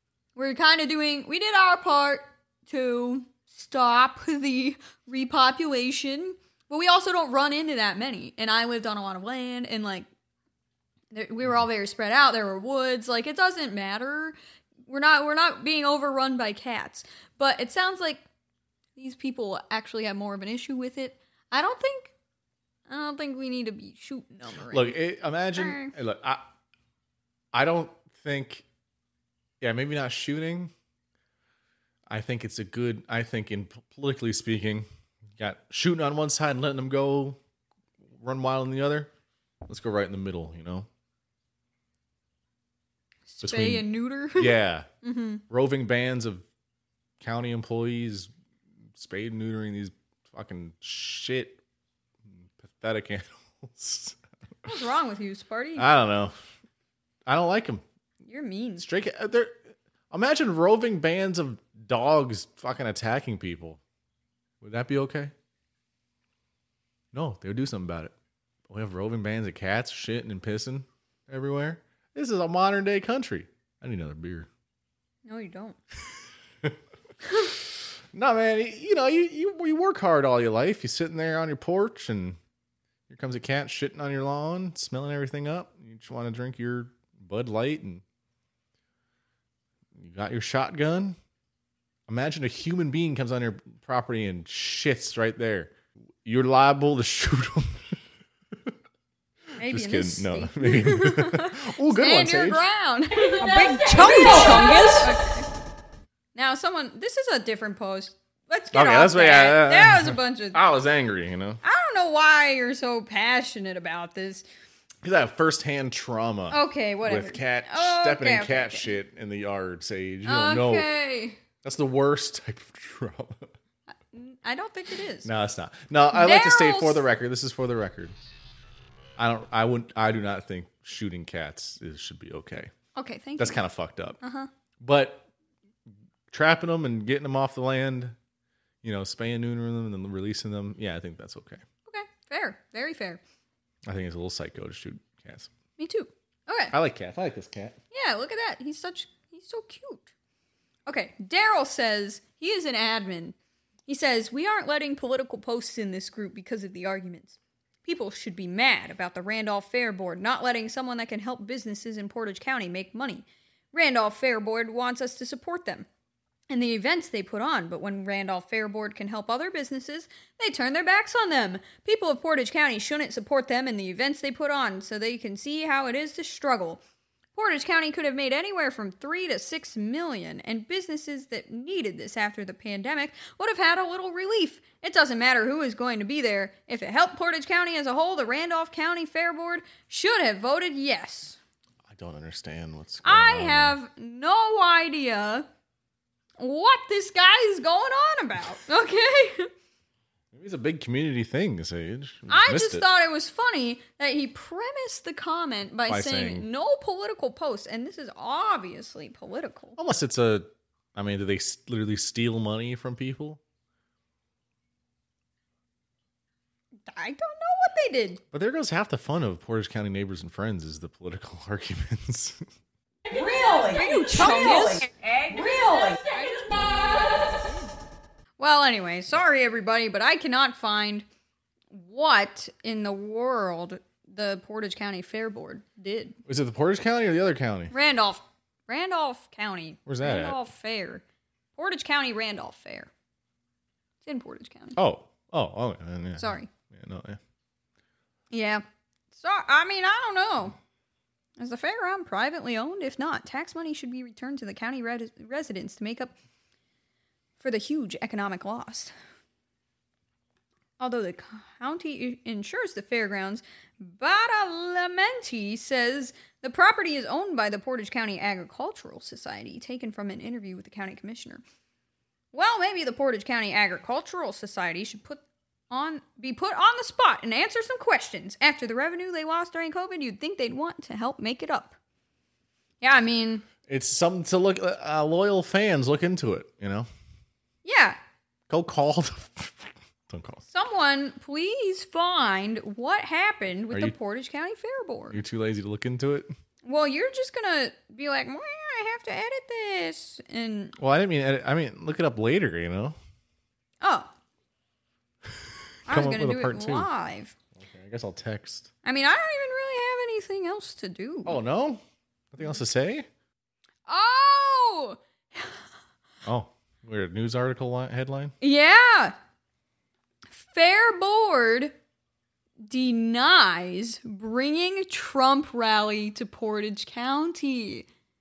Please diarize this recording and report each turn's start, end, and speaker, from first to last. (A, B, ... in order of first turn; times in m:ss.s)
0:00.3-0:10.1 A
0:11.1-0:14.4 A
0:14.9-0:18.2 A
0:19.0-0:22.1 A
0:22.9-0:25.0 A
0:24.7-0:26.4 B
0:25.5-0:25.9 A
0:27.5-0:28.6 B
0:29.6-0:30.7 B
0:32.1-0:34.8 B
0:35.4-0:37.4 B
0:38.2-0:39.1 B
0:39.6-0:40.9 B
0:43.3-0:45.4 A
0:43.4-0:44.9 B
0:45.5-0:46.4 B
0:47.2-0:48.3 B
0:48.9-0:51.6 B
0:52.3-0:54.2 B
0:54.6-0:55.9 A
0:55.8-0:56.3 B
0:57.3-0:57.8 B
0:58.2-0:58.8 A
0:58.8-0:59.6 B
1:00.1-1:03.8 B
1:04.6-1:05.3 B
1:07.1-1:08.1 B
1:08.7-1:14.5 B
1:15.2-1:15.8 A
1:18.1-1:22.4 B
1:23.1-1:28.0 B
1:29.9-1:31.2 B
1:32.1-1:35.7 B
1:36.2-1:38.0 B
1:39.6-1:45.5 A
1:39.6-1:42.6 B
1:43.4-1:45.1 C
1:46.3-1:50.6 A
1:48.7-1:51.6 B
1:51.6-1:54.4 A
1:55.0-2:00.9 B
1:56.5-1:58.9 A
2:00.2-2:01.4 A
2:01.6-2:03.5 B
2:04.1-2:05.3 A
2:05.2-2:08.1 B
2:06.1-2:07.0 A
2:09.2-2:12.7 B
2:13.0-2:13.6 A
2:13.4-2:14.2 B
2:14.2-2:14.5 A
2:14.8-2:15.3 B
2:16.3-2:18.1 B
2:18.8-2:21.6 B
2:21.9-2:23.2 A
2:23.8-2:25.5 B
2:25.8-2:26.7 A
2:26.7-2:27.8 B
2:27.9-2:30.1 A
2:30.9-2:33.3 A
2:33.9-2:45.9 A
2:46.5-2:56.8 A
2:57.3-3:11.4 A
3:11.9-3:13.8 B
3:13.0-3:15.4 A
3:16.4-3:19.5 A
3:20.3-3:22.8 B
3:22.3-3:29.8 A
3:25.9-3:26.5 B
3:29.8-3:33.4 B
3:36.9-3:38.2 A
3:38.3-3:42.4 B
3:43.1-3:46.1 C
3:43.5-3:44.9 A
3:46.1-3:47.7 A
3:48.4-3:51.0 A
3:51.7-3:56.2 A
3:56.3-3:57.7 B
3:57.7-4:01.0 A
3:59.9-4:00.4 B
4:01.6-4:02.9 A
4:04.0-4:04.8 A
4:04.8-4:07.2 B
4:06.2-4:06.5 A
4:08.3-4:10.6 A
4:11.4-4:16.1 A
4:17.4-4:18.9 A
4:20.8-4:31.4 A
4:32.3-4:41.8 A
4:42.8-4:43.4 A
4:43.6-4:46.9 B
4:47.6-4:48.0 A
4:48.5-4:50.4 B
4:50.5-4:55.2 A
4:55.1-4:56.3 B
4:56.6-5:00.7 A
5:00.8-5:03.0 B
5:03.8-5:04.1 A
5:05.9-5:07.3 A
5:05.9-5:06.9 B
5:07.6-5:08.7 B
5:08.8-5:11.4 A
5:11.2-5:11.8 B
5:12.3-5:13.1 B
5:13.9-5:15.6 A
5:16.2-5:18.3 B
5:18.4-5:19.1 A
5:20.3-5:21.7 A
5:22.6-5:27.9 A